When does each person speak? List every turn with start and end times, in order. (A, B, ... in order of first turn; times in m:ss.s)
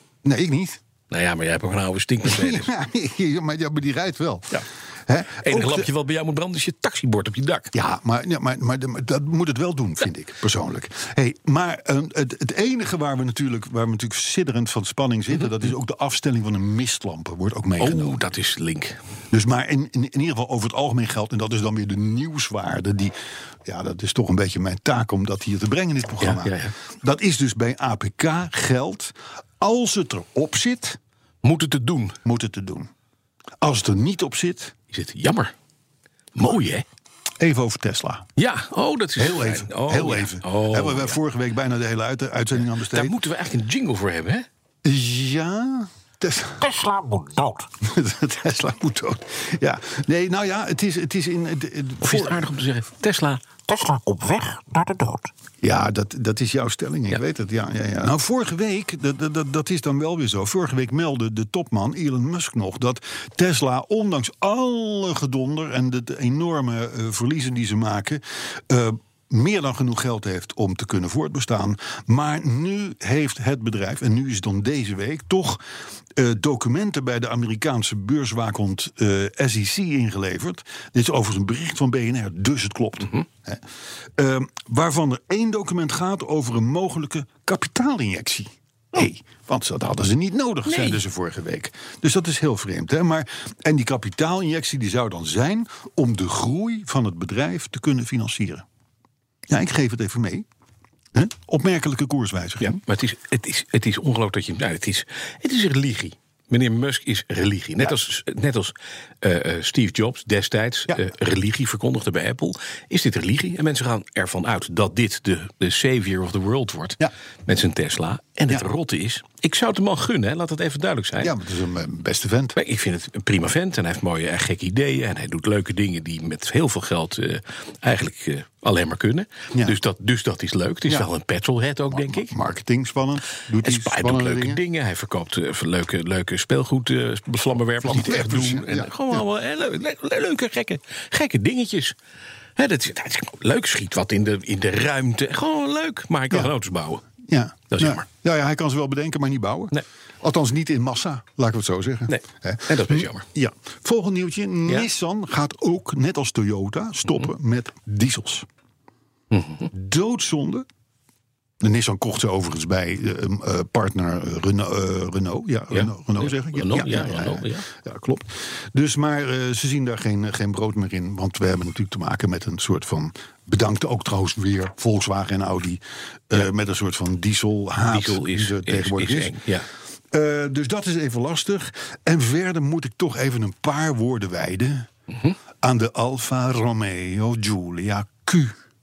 0:00.2-0:00.8 A
0:01.1-0:02.7 B
0:02.2-0:05.9 A
0:05.4-0:07.7 B
0:07.7-0:18.2 A
0:17.8-0:19.0 B
0:19.3-0:23.1 A
0:23.6-0:31.0 A
0:26.2-0:26.7 B
0:31.4-0:32.2 B
0:32.2-0:32.9 A
0:33.6-0:34.8 A
0:34.9-0:35.5 B
0:36.4-0:36.8 B
0:37.4-0:38.3 A
0:38.4-0:41.2 B
0:39.2-0:43.2 A
0:42.7-0:44.5 B
0:44.8-0:46.7 A
0:46.8-0:47.6 C
0:47.8-0:52.5 A
0:52.0-0:54.0 B
0:53.7-0:55.2 C
0:55.6-1:15.6 A
1:16.2-1:23.6 A
1:24.2-1:38.6 A
1:30.7-1:31.0 B
1:39.5-1:40.5 A
1:41.1-1:42.8 A
1:42.6-2:01.3 B
2:01.2-2:02.6 A
2:02.6-2:12.3 B
2:11.9-2:14.6 A
2:13.6-2:22.0 B
2:17.8-2:19.2 A
2:22.6-2:27.0 B
2:27.2-2:38.5 A
2:27.7-2:28.0 B
2:32.1-2:33.3 B
2:39.3-2:39.7 B
2:39.7-2:40.7 A
2:41.6-2:59.4 A
2:45.7-2:47.7 B
2:57.9-2:59.7 B
3:00.1-3:04.9 A
3:05.6-3:08.6 A